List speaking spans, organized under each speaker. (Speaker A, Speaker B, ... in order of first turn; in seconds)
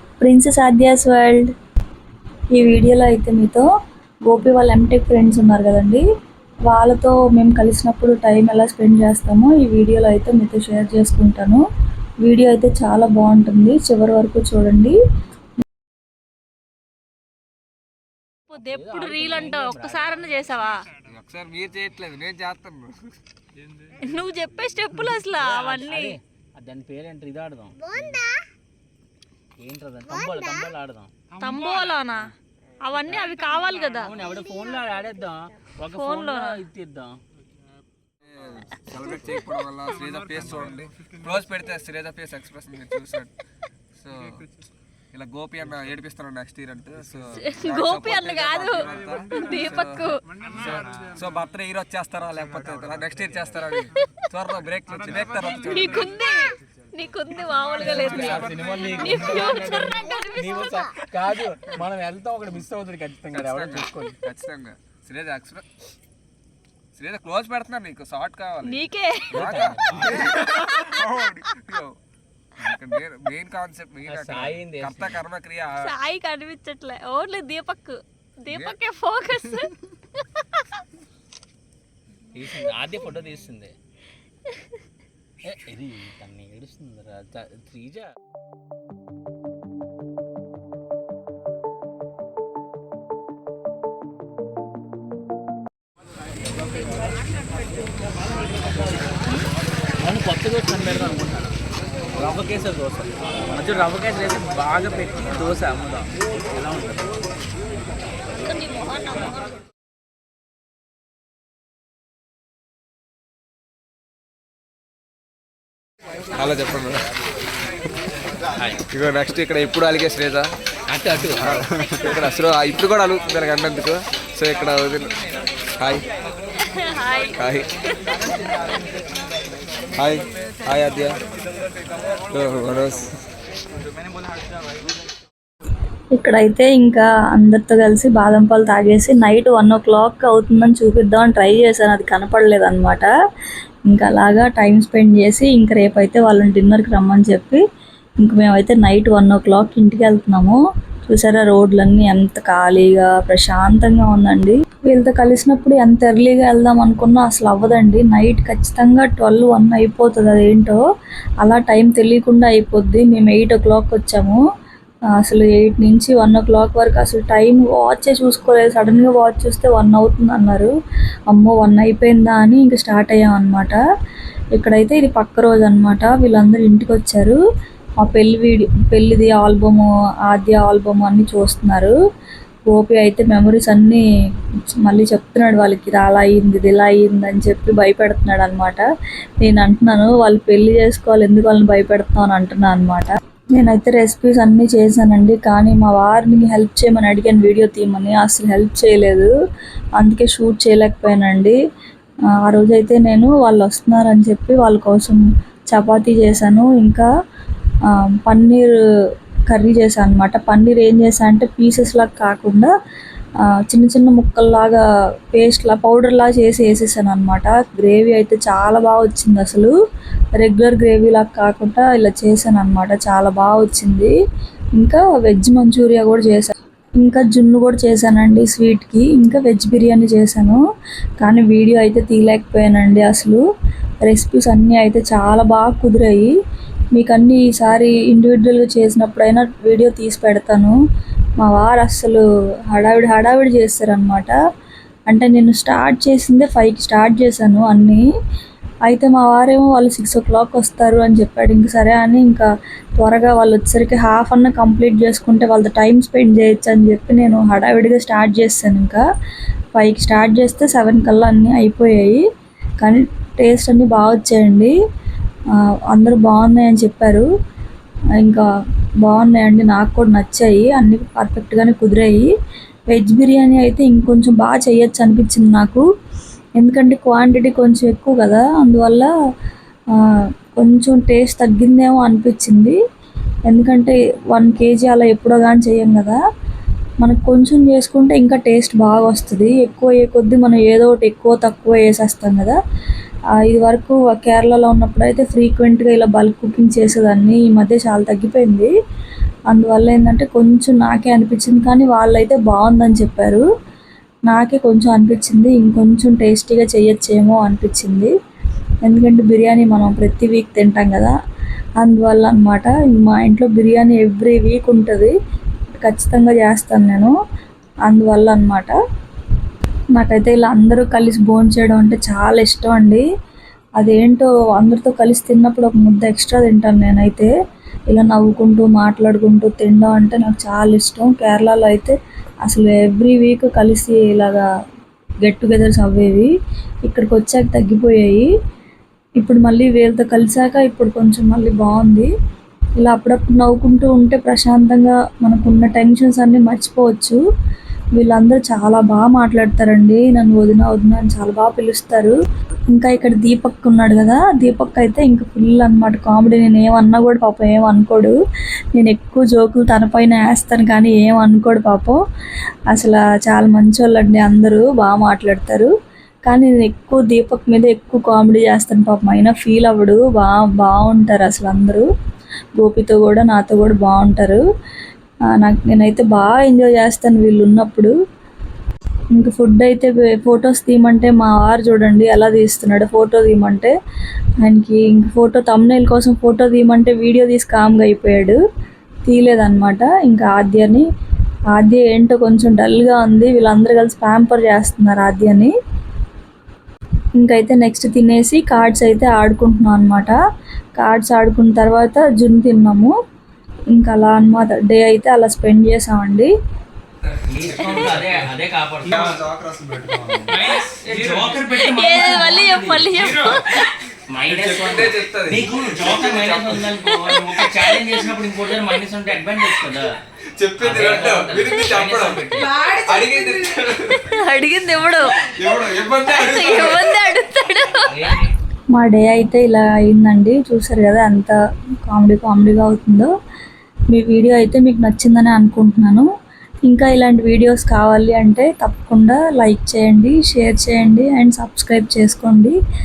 Speaker A: 0.2-1.5, 2.5-3.7, 4.2-6.0, 6.7-11.6, 12.2-14.9, 136.1-143.1, 143.9-147.6, 148.2-160.8, 161.4-164.4, 165.2-170.7, 171.3-173.8, 174.5-177.4, 178.0-181.9, 182.7-184.0, 184.8-188.8, 189.4-199.3, 200.0-201.6, 202.4-207.1, 207.9-208.7, 209.5-212.7, 213.6-219.7, 220.4-224.1, 224.8-230.6, 231.2-233.4, 234.0-236.3, 236.9-240.8, 241.4-244.3, 245.1-248.0, 248.9-252.5, 253.0-259.0, 259.7-262.2, 262.8-264.7, 265.9-267.3, 269.0-272.3, 272.9-275.8, 276.6-279.1, 280.6-282.8, 283.5-286.2, 287.0-292.6, 293.4-298.7, 299.5-303.4, 304.3-308.1, 308.8-311.1, 311.8-315.1, 315.8-317.1, 317.9-318.7, 319.9-323.0, 323.8-327.3, 327.9-331.9, 332.4-334.4, 335.2-336.3, 336.9-338.3, 339.2-342.1, 342.8-347.2, 348.0-352.1, 352.7-358.1, 358.8-362.0, 362.7-365.7, 366.2-371.8, 372.6-374.4, 375.4-377.9, 379.1-383.7, 384.4-388.4, 389.0-390.9, 391.5-395.5, 397.2-400.1, 400.8-402.9, 403.7-406.3, 428.7-431.4, 431.9-433.1, 433.9-436.1, 436.6-442.6
Speaker B: 18.5-20.9, 24.0-26.2, 31.4-32.3, 32.8-34.1, 35.9-36.6, 47.4-50.2, 55.5-61.0, 68.6-69.4, 70.3-71.0, 75.8-80.6, 108.3-109.5, 126.7-127.4, 127.9-128.8, 411.5-413.6, 417.5-418.0, 423.8-425.1, 425.9-428.2
Speaker C: 18.5-20.4, 25.4-28.3, 29.6-31.1, 34.0-37.2, 57.8-64.2, 69.3-70.3, 74.0-75.2, 82.3-83.7, 85.4-88.1, 100.0-101.6, 102.2-107.1, 118.5-118.9, 120.9-121.9, 407.3-409.2, 410.3-413.4, 414.1-420.0, 420.6-422.7, 427.8-428.3
Speaker D: 21.0-23.0, 38.3-43.3, 43.9-44.5, 45.1-56.1, 58.0-58.7, 63.3-65.7, 66.9-72.0, 72.6-75.9, 78.5-78.8, 116.3-117.1, 118.9-120.5, 121.3-125.2, 125.8-126.0, 127.3-127.7, 130.0-131.2, 132.3-133.2, 407.0-411.3, 414.2-416.9, 420.4-424.1, 425.3-427.1